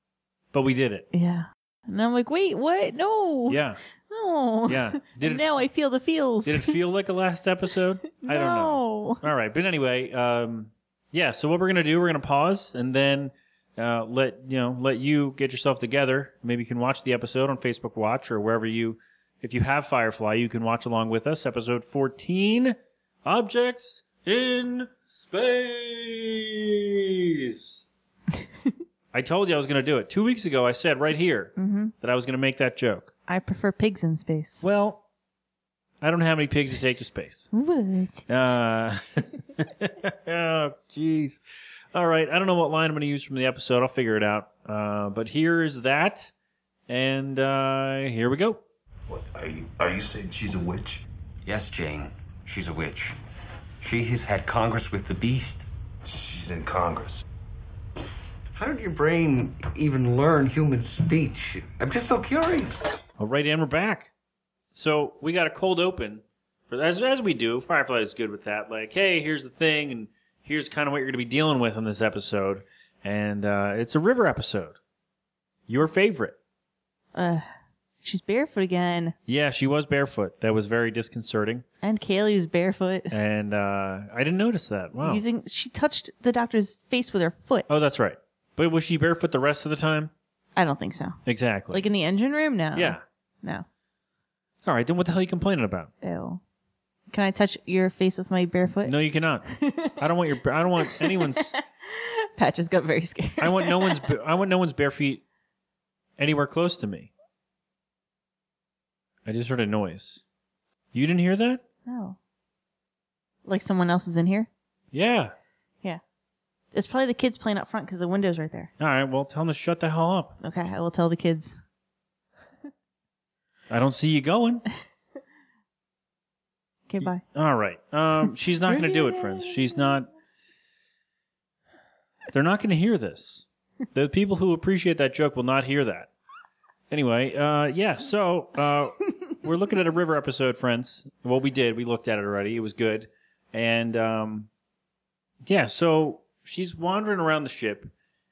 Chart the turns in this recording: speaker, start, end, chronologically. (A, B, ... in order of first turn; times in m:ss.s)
0:00.5-0:01.1 A
0:01.1-0:06.8 B
0:03.5-0:03.8 A
0:04.7-0:05.6 A
0:06.4-0:27.9 A
0:08.1-0:09.2 B
0:29.1-0:33.1 A
0:31.6-0:31.9 B
0:33.3-0:34.6 B
0:34.6-0:35.0 A
0:36.0-0:37.5 A
0:37.5-0:38.3 B
0:38.3-0:41.4 A
0:41.9-0:46.3 A
0:46.9-0:48.6 A
0:49.1-0:51.0 C
0:51.4-0:53.2 D
0:53.8-0:55.7 D
0:56.0-0:57.2 C
0:58.5-1:02.9 D
1:03.2-1:04.1 A
1:04.7-1:14.8 A
1:15.7-1:16.4 A
1:17.2-1:17.4 B
1:18.0-1:19.2 B
1:19.3-1:21.6 A
1:21.8-1:23.1 B
1:23.1-1:25.2 A
1:25.0-1:27.7 B
1:27.7-1:30.1 A
1:30.6-1:31.2 B
1:31.2-1:31.8 A
1:31.7-1:33.7 B
1:32.8-1:33.0 A
1:34.6-1:35.9 A
1:36.0-1:36.4 B
1:37.1-1:39.0 B
1:38.8-1:41.5 A
1:39.6-1:40.0 B
1:40.9-1:44.1 B
1:43.4-1:45.2 A
1:46.2-1:47.1 A
1:49.2-1:50.2 A
1:50.9-1:51.6 A
1:51.9-1:52.2 B
1:53.5-1:54.5 B
1:54.9-1:55.3 A
1:56.7-1:58.7 B
1:58.8-2:00.4 A
2:00.4-2:01.6 B
2:03.7-2:04.6 A
2:06.9-2:07.2 B
2:07.0-2:10.1 A
2:08.7-2:09.9 B
2:12.3-2:16.1 A
2:16.9-2:24.5 A
2:25.4-2:27.9 A